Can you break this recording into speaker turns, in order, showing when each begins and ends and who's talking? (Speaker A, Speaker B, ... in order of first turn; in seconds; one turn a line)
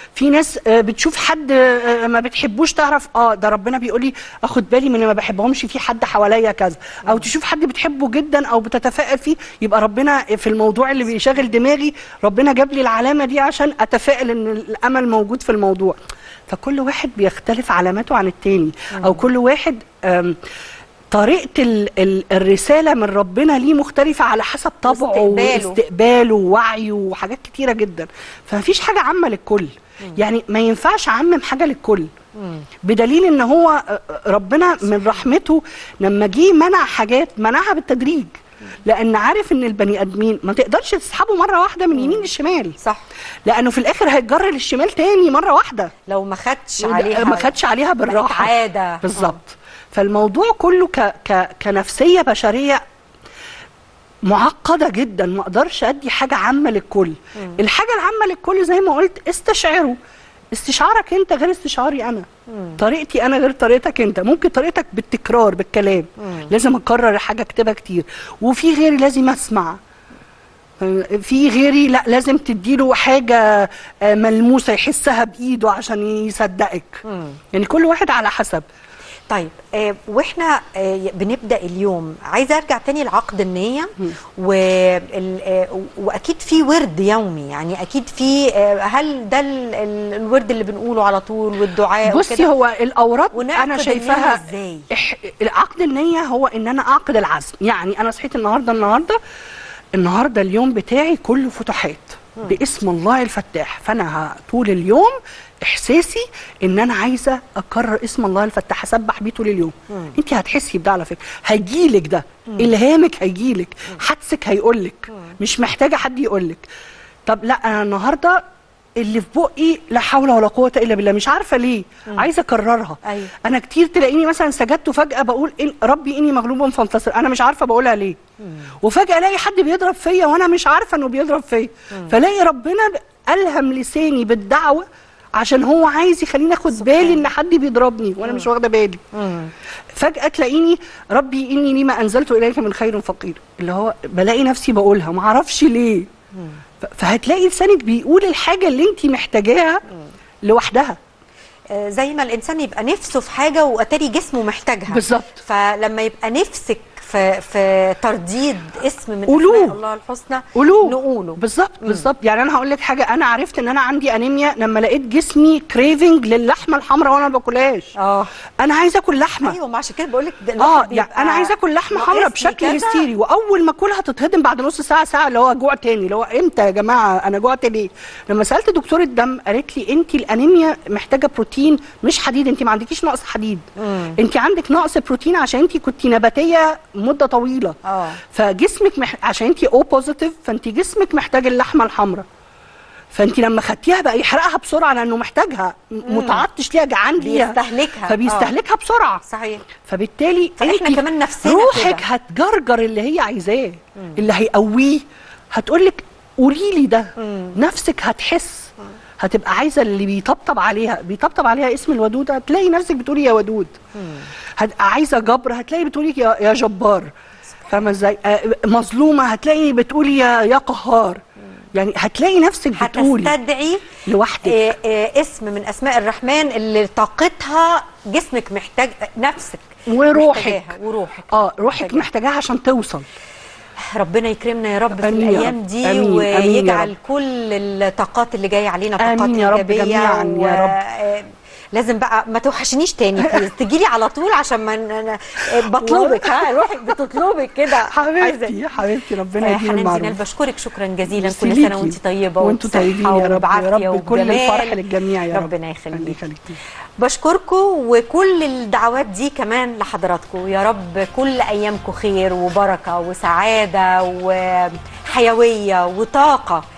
Speaker A: 0.1-16.0
Speaker A: 16.5-20.4
Speaker B: 18.9-19.2
Speaker A: 21.1-32.1
Speaker B: 24.9-25.8
Speaker B: 32.4-32.6
Speaker A: 32.8-42.8
Speaker B: 41.9-42.3
Speaker B: 42.8-43.0
Speaker A: 43.5-45.9
Speaker B: 46.0-47.5
Speaker A: 46.8-52.8
Speaker B: 48.0-49.4
Speaker A: 54.2-60.0
Speaker A: 60.5-69.8
Speaker B: 62.5-62.8
Speaker B: 66.2-66.5
Speaker A: 70.8-78.6
Speaker B: 77.1-77.4
Speaker B: 79.3-92.5
Speaker A: 92.0-99.2
Speaker B: 93.3-94.9
Speaker A: 100.0-116.7
Speaker A: 117.2-118.4
Speaker A: 119.0-128.2
Speaker B: 123.0-123.3
Speaker A: 128.8-139.0
Speaker B: 139.1-139.5
Speaker A: 139.9-146.1
Speaker A: 146.8-149.8
Speaker A: 150.4-151.0
Speaker B: 151.7-162.0
Speaker A: 154.9-155.4
Speaker A: 159.3-159.8
Speaker A: 160.5-167.9
Speaker B: 167.9-168.3
Speaker A: 168.6-169.6
Speaker B: 169.4-173.1
Speaker A: 170.6-183.6
Speaker B: 183.8-184.2
Speaker A: 184.2-192.2
Speaker B: 187.8-188.2
Speaker A: 193.1-199.2
Speaker B: 196.1-196.4
Speaker B: 197.2-198.5
Speaker B: 199.2-199.7
Speaker A: 199.8-213.8
Speaker B: 200.6-202.0
Speaker B: 207.2-207.6
Speaker B: 213.9-214.3
Speaker A: 214.6-217.1
Speaker B: 217.6-217.9
Speaker A: 217.7-221.2
Speaker A: 221.7-223.3
Speaker B: 222.7-232.1
Speaker A: 224.0-224.7
Speaker A: 229.9-230.7
Speaker A: 231.3-233.1
Speaker B: 233.8-248.6
Speaker A: 235.0-236.9
Speaker A: 239.0-240.8
Speaker A: 243.2-243.4
Speaker A: 245.7-247.0
Speaker A: 247.8-250.2
Speaker B: 249.4-256.2
Speaker A: 251.1-256.6
Speaker B: 257.0-266.6